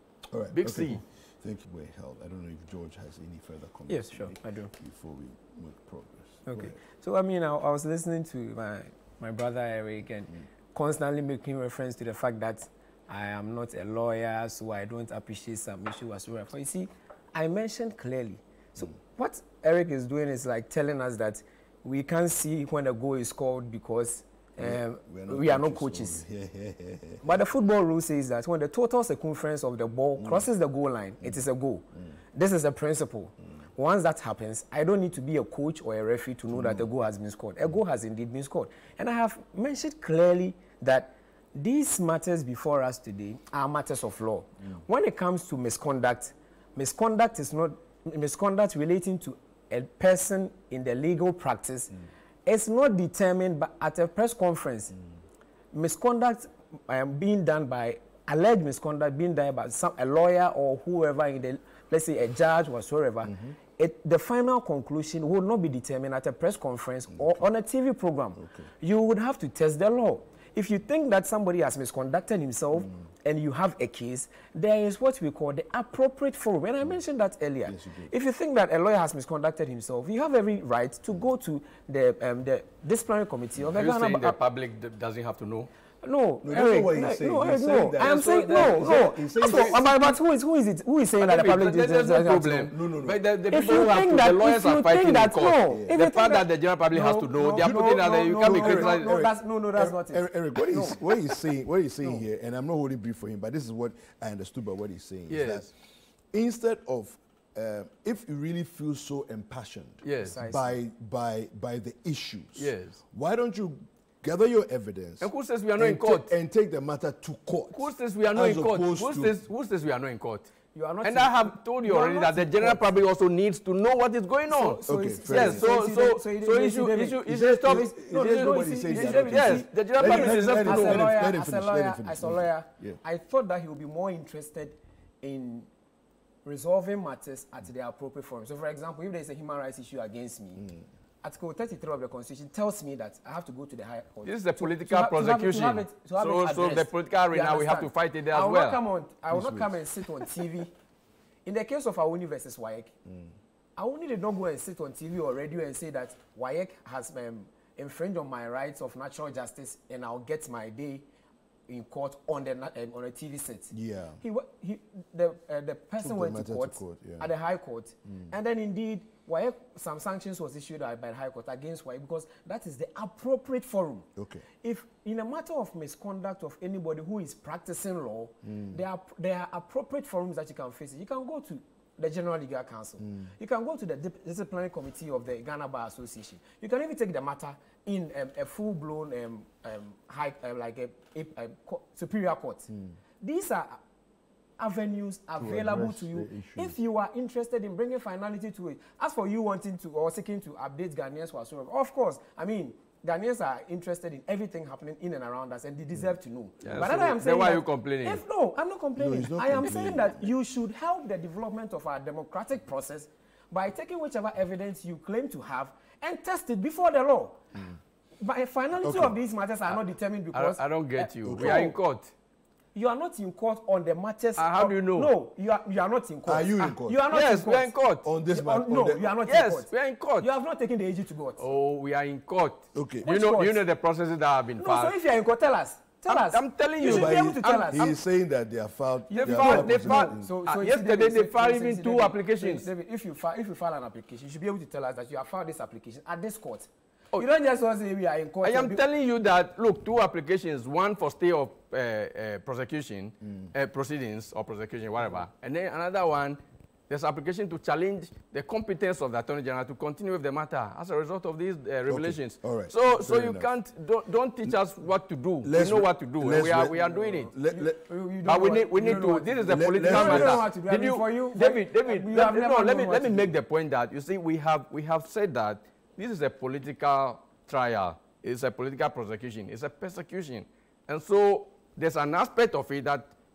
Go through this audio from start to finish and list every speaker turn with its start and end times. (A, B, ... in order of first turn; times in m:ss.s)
0:00.3-0:06.8 A
0:00.5-0:01.0 B
0:03.9-0:04.7 C
0:06.5-0:26.2 C
0:24.6-0:27.2 A
0:27.2-0:51.9 C
0:30.2-0:30.5 A
0:36.5-0:36.9 A
0:52.5-0:55.0 C
0:55.7-1:24.4 C
1:03.3-1:03.6 A
1:07.1-1:07.4 A
1:08.4-1:08.7 A
1:12.7-1:13.0 A
1:17.7-1:18.1 A
1:23.8-1:25.7 B
1:26.0-1:32.7 C
1:26.4-1:29.8 A
1:28.0-1:30.1 B
1:31.2-1:39.1 B
1:32.7-1:33.2 A
1:33.5-1:41.0 C
1:35.7-1:36.0 A
1:37.6-1:45.7 A
1:45.3-1:45.7 B
1:46.3-1:59.4 A
1:50.0-1:50.4 B
1:50.2-1:50.7 C
1:52.6-1:53.0 B
1:55.2-1:56.3 B
1:57.7-2:11.1 B
2:00.7-2:02.8 C
2:04.5-2:15.7 C
2:04.9-2:05.7 A
2:07.3-2:13.0 A
2:16.4-2:20.6 C
2:20.6-2:20.9 A
2:21.2-2:30.7 C
2:24.2-2:28.8 B
2:29.3-2:29.8 A
2:31.4-2:33.0 C
2:33.1-2:33.3 A
2:33.8-2:41.1 C
2:41.7-2:54.1 C
2:43.7-2:44.2 A
2:46.0-2:47.3 A
2:48.1-2:48.3 A
2:54.2-2:54.4 A
2:54.6-3:12.7 C
2:58.4-2:58.8 A
3:03.0-3:03.3 A
3:13.2-3:13.8 C
3:14.6-3:37.4 C
3:15.4-3:16.8 A
3:26.6-3:28.2 B
3:29.0-3:30.3 A
3:38.2-3:41.7 C
3:38.8-3:39.2 A
3:40.3-3:42.1 B
3:41.2-3:41.8 A
3:42.8-3:47.7 C
3:44.4-3:45.1 B
3:46.3-3:47.1 A
3:47.1-3:48.1 B
3:48.0-3:49.1 A
3:48.3-3:51.4 C
3:49.3-3:50.3 B
3:51.4-3:55.0 B
3:52.7-3:53.1 A
3:53.0-3:53.6 C
3:54.6-3:57.9 C
3:56.1-3:58.0 B
3:56.8-4:00.3 A
3:59.1-4:08.8 C
3:59.1-4:02.7 B
4:08.4-4:27.3 B
4:13.2-4:13.5 A
4:21.9-4:23.5 A
4:25.4-4:27.8 A
4:26.8-4:33.3 C
4:28.2-4:43.1 B
4:29.5-4:30.4 A